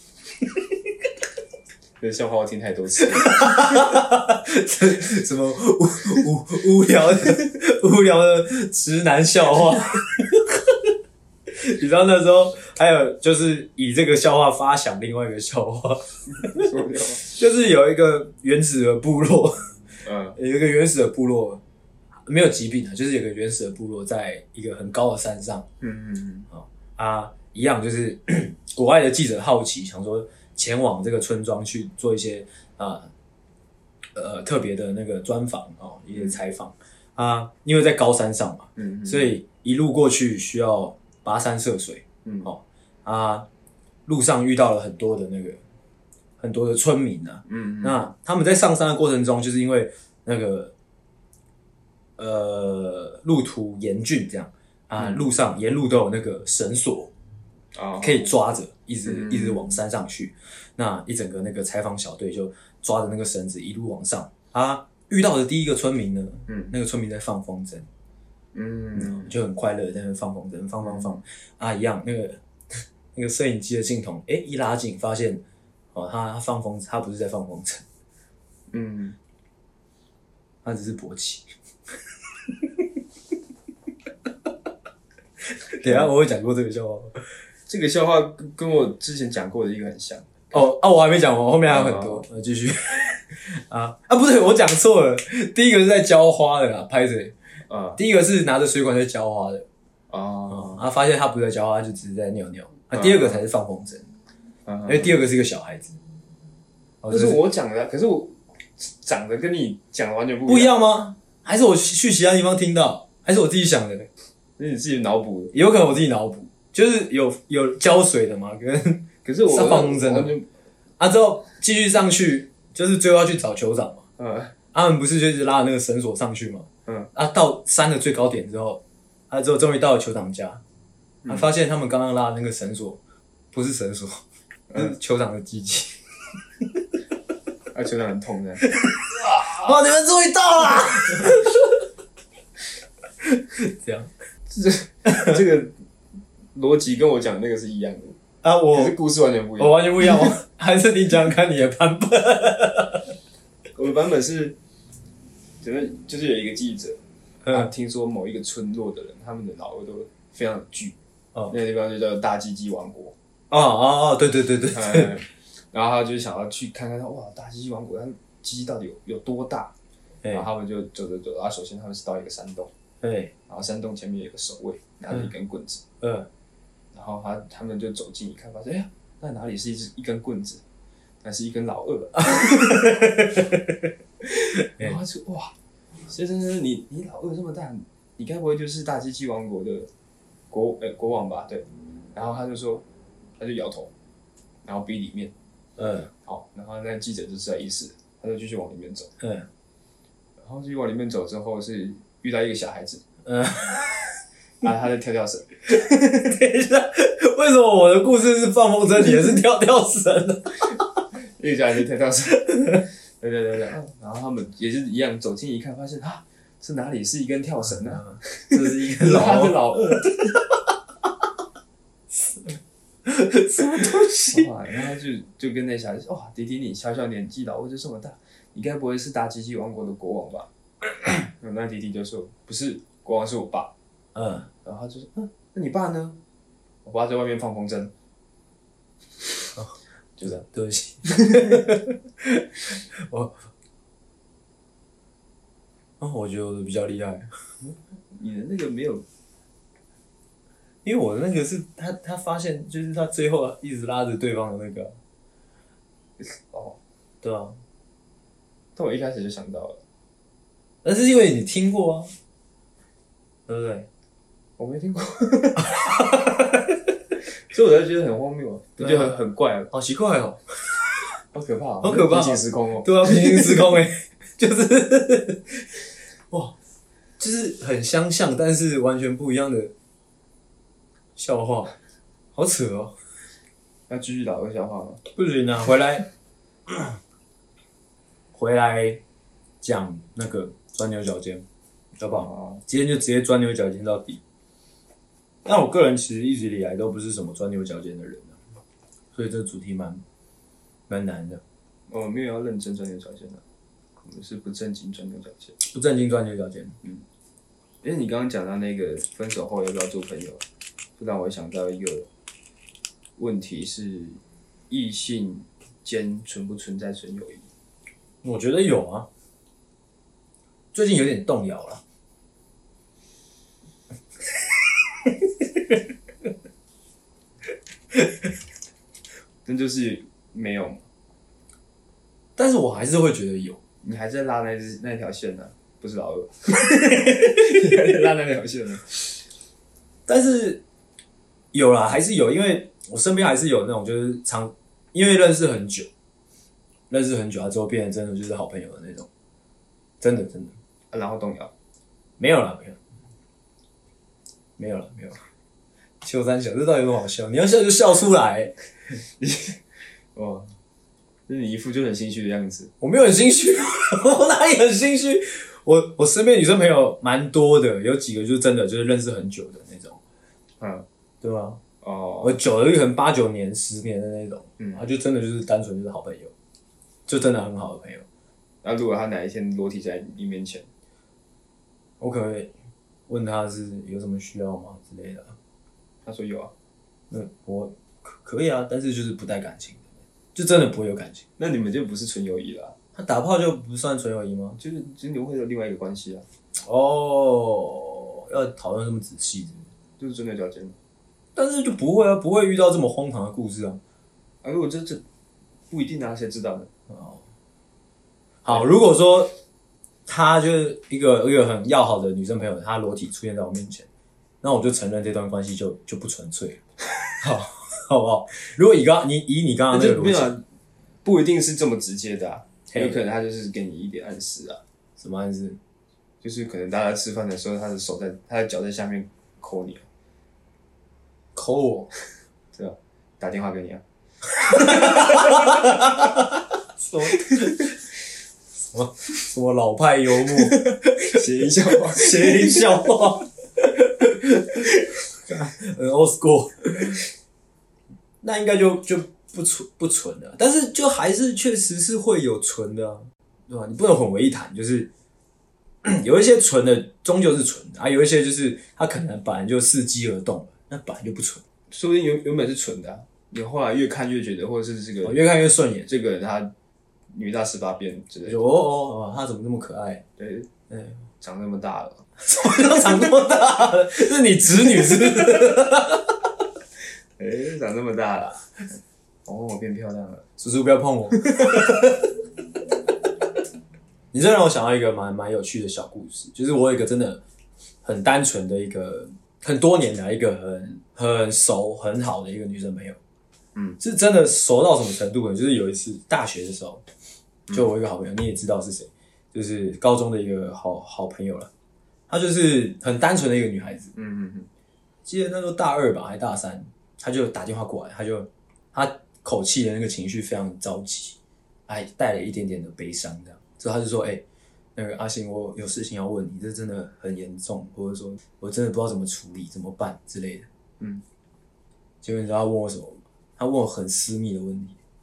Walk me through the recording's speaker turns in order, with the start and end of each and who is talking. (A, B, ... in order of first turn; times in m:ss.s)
0:02.0-0:03.6 A
0:03.2-0:10.8 B
0:11.5-0:16.7 B
0:16.4-0:17.2 A
0:17.2-0:19.8 B
0:20.0-0:20.4 A
0:20.4-0:21.6 B
0:22.3-0:25.7 B
0:25.8-0:26.5 A
0:26.5-0:33.1 B
0:34.2-0:43.5 B
0:38.8-0:39.3 A
0:44.1-0:45.6 B
0:46.4-0:50.7 B
0:47.5-0:48.0 A
0:52.2-0:57.1 B
0:57.7-0:58.3 A
0:58.0-1:07.9 B
0:59.1-0:59.8 A
1:08.5-1:09.3 A
1:08.9-1:12.4 B
1:10.8-1:11.2 A
1:13.2-1:15.4 B
1:15.9-1:17.8 B
1:18.7-1:19.2 A
1:20.6-1:21.5 B
1:25.7-1:27.2 B
1:25.8-1:26.1 A
1:27.7-1:30.5 A
1:30.5-1:37.4 B
1:31.7-1:32.2 A
1:37.7-1:38.0 A
1:38.0-1:39.7 B
1:40.1-1:40.8 A
1:40.5-1:44.1 B
1:42.9-1:43.4 A
1:44.7-1:45.1 A
1:44.9-1:46.0 B
1:47.0-1:47.4 B
1:47.1-1:50.8 A
1:50.5-1:54.1 B
1:54.6-1:55.5 A
1:55.5-2:00.4 B
1:59.2-2:00.5 A
2:01.0-2:04.1 B
2:04.2-2:04.5 A
2:04.7-2:10.6 B
2:11.3-2:13.0 B
2:13.5-2:16.0 B
2:17.7-2:18.6 A
2:18.8-2:21.6 B
2:23.2-2:24.1 B
2:24.5-2:25.8 A
2:25.1-2:25.4 B
2:26.5-2:28.2 A
2:28.4-2:29.0 B
2:28.7-2:30.3 A
2:29.6-2:33.1 B
2:33.8-2:34.6 A
2:35.6-2:41.0 A
2:41.5-2:43.2 A
2:43.5-2:45.2 B
2:44.7-2:49.7 A
2:50.3-2:52.7 A
2:53.0-2:53.3 B
2:53.5-2:55.8 A
2:56.0-2:56.3 B
2:56.9-3:00.6 A
3:01.2-3:03.0 A
3:02.2-3:03.5 B
3:04.6-3:05.0 B
3:04.6-3:05.6 A
3:06.1-3:09.9 A
3:10.5-3:12.8 A
3:13.4-3:13.9 A
3:14.6-3:15.3 A
3:15.8-3:16.1 B
3:16.2-3:19.1 A
3:19.2-3:19.5 B
3:20.4-3:23.0 A
3:23.2-3:24.2 B
3:24.6-3:25.5 A
3:25.7-3:30.8 B
3:31.2-3:32.5 A
3:32.4-3:32.8 B
3:33.1-3:40.1 A
3:38.0-3:40.2 B
3:42.2-3:42.5 B
3:43.0-3:44.5 B
3:44.3-3:50.5 A
3:51.4-3:53.7 A
3:54.2-3:54.5 B
3:54.6-3:56.2 A
3:56.8-3:57.9 A
3:59.6-4:03.4 B
4:06.0-4:07.7 B
4:08.1-4:09.0 A
4:10.8-4:15.0 B
4:16.2-4:16.8 A
4:17.2-4:17.6 B
4:18.8-4:19.8 A
4:20.8-4:22.1 B
4:23.5-4:23.9 B
4:24.6-4:25.8 A
4:25.7-4:26.7 B
4:27.5-4:29.7 A
4:28.8-4:29.1 B
4:29.7-4:31.0 B
4:31.3-4:33.7 A
4:31.8-4:35.8 B
4:36.3-4:36.6 B
4:37.2-4:39.7 B
4:41.2-4:41.8 B
4:42.3-4:43.0 B
4:43.9-4:45.0 A
4:45.1-4:46.1 B
4:46.7-4:47.0 B
4:48.3-4:49.0 B
4:49.6-4:51.4 B
4:52.0-4:54.2 B
4:52.1-4:52.6 A
4:55.4-4:58.4 B
4:59.1-5:00.0 B
5:00.9-5:01.4 B
5:01.9-5:03.4 A
5:04.0-5:05.6 A
5:05.6-5:06.8 B
5:07.8-5:10.4 A
5:11.0-5:12.1 A
5:13.2-5:17.5 A
5:18.2-5:19.1 B
5:20.7-5:21.8 B
5:29.5-5:30.8 A
5:32.4-5:33.6 B
5:33.8-5:39.2 A
5:40.1-5:40.6 B
5:41.5-5:45.9 B
5:46.9-5:49.1 B
5:50.0-5:50.6 B
5:50.9-5:51.5 A
5:52.2-5:52.8 B
5:54.6-5:55.2 B
5:56.0-5:58.6 B
5:59.2-5:59.6 A
6:00.2-6:00.5 A
6:01.3-6:02.7 A
6:02.8-6:10.0 B
6:10.6-6:10.9 A
6:11.2-6:11.6 B
6:11.8-6:12.4 A
6:12.2-6:16.3 B
6:17.1-6:18.0 B
6:18.6-6:20.7 A
6:22.0-6:22.5 B
6:23.1-6:25.4 B
6:26.0-6:26.5 A
6:27.1-6:31.3 B
6:31.4-6:32.8 A
6:33.0-6:34.6 B
6:34.6-6:36.3 A
6:36.6-6:39.7 B
6:40.0-6:40.8 A
6:41.4-6:43.8 B
6:44.4-6:45.0 A
6:45.7-6:46.7 A
6:46.9-6:47.2 B
6:48.4-6:49.4 B
6:50.1-6:53.9 B
6:54.4-6:56.6 B
6:57.2-7:00.3 B
6:59.7-7:00.4 A
7:01.0-7:04.6 A
7:02.7-7:03.0 B
7:05.0-7:05.6 B
7:06.2-7:09.9 A
7:11.4-7:11.9 B
7:12.5-7:13.8 A
7:14.4-7:17.8 B
7:14.5-7:15.5 A
7:18.6-7:27.0 B
7:20.4-7:22.9 A
7:28.2-7:34.9 B
7:35.8-7:41.4 B
7:41.7-7:45.2 A
7:45.0-7:45.9 B
7:45.9-7:46.5 A
7:47.1-7:48.4 A
7:48.3-7:50.0 B
7:50.2-7:50.5 A
7:50.7-7:51.0 B
7:51.2-7:52.0 A
7:52.2-7:56.1 B
7:57.2-7:58.4 A
7:59.3-8:00.3 A
8:00.4-8:02.1 B
8:04.1-8:07.2 B
8:07.8-8:13.0 B
8:13.8-8:16.8 B
8:17.5-8:21.5 B
8:22.1-8:23.9 B
8:23.9-8:24.5 A
8:25.0-8:31.2 B
8:31.7-8:34.2 B
8:34.8-8:40.5 B
8:40.8-8:41.0 A
8:42.0-8:44.8 B